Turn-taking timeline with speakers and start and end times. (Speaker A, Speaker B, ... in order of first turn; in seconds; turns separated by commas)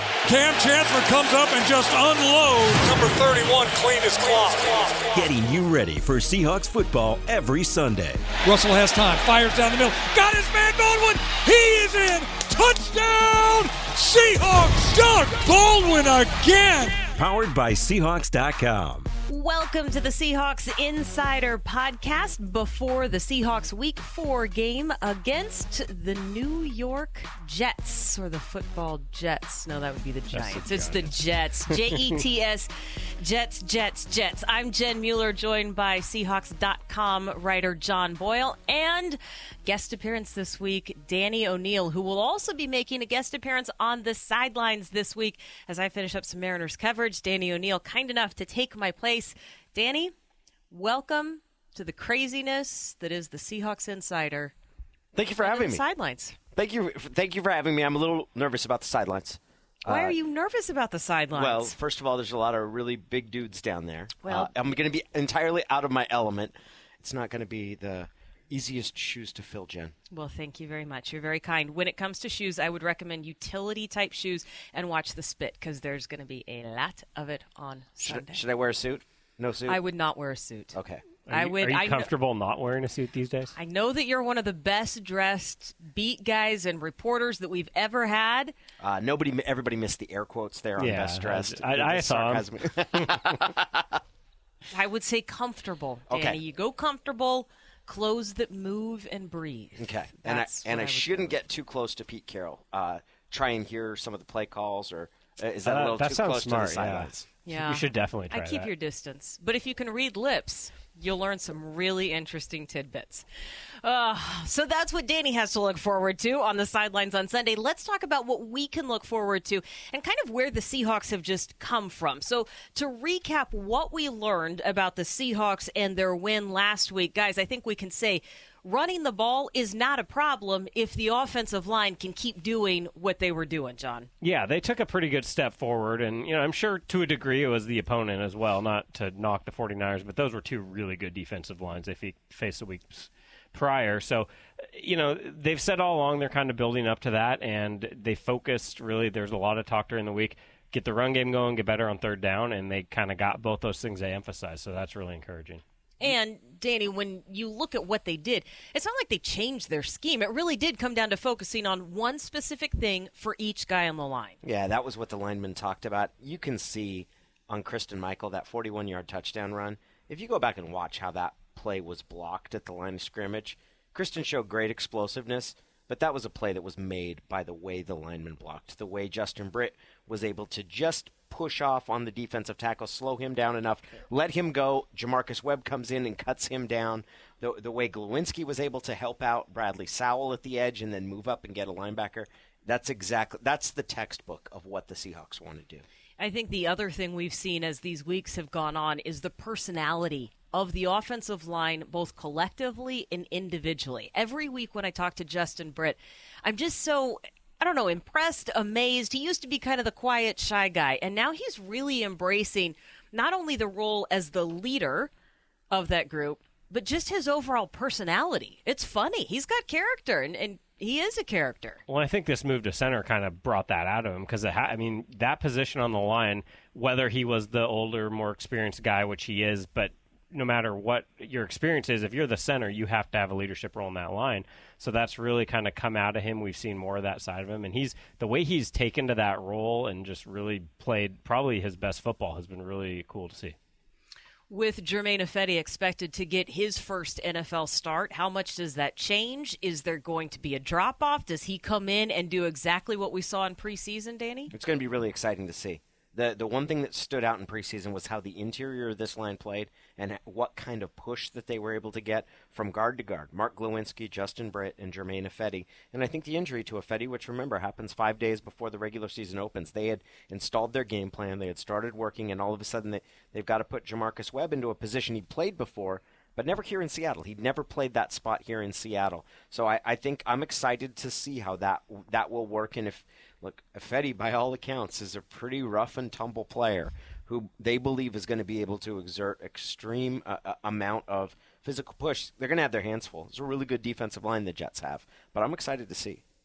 Speaker A: 0.2-5.2, Speaker B: 5.1-8.3, Speaker A: 8.4-17.1, Speaker B: 17.1-19.1, Speaker C: 19.3-50.1, Speaker D: 30.3-32.0, Speaker C: 50.7-54.5, Speaker E: 55.1-55.8, Speaker C: 55.4-56.4, Speaker E: 56.5-60.2, Speaker C: 59.9-61.8, Speaker E: 61.3-69.9, Speaker C: 64.2-64.5, Speaker C: 70.1-78.5, Speaker E: 78.0-79.8, Speaker C: 79.7-82.1, Speaker E: 80.7-81.1, Speaker D: 81.3-83.5, Speaker C: 83.5-88.6, Speaker E: 88.8-94.0, Speaker D: 90.8-93.2, Speaker C: 94.7-101.4, Speaker E: 96.1-96.4, Speaker E: 99.8-107.2, Speaker D: 105.7-108.7, Speaker C: 107.5-113.3, Speaker C: 113.8-134.1, Speaker D: 134.2-155.6, Speaker C: 156.0-164.4, Speaker E: 164.4-195.8, Speaker C: 196.2-215.1, Speaker C: 215.7-221.8, Speaker D: 221.9-243.6, Speaker C: 244.5-254.5, Speaker E: 254.5-296.2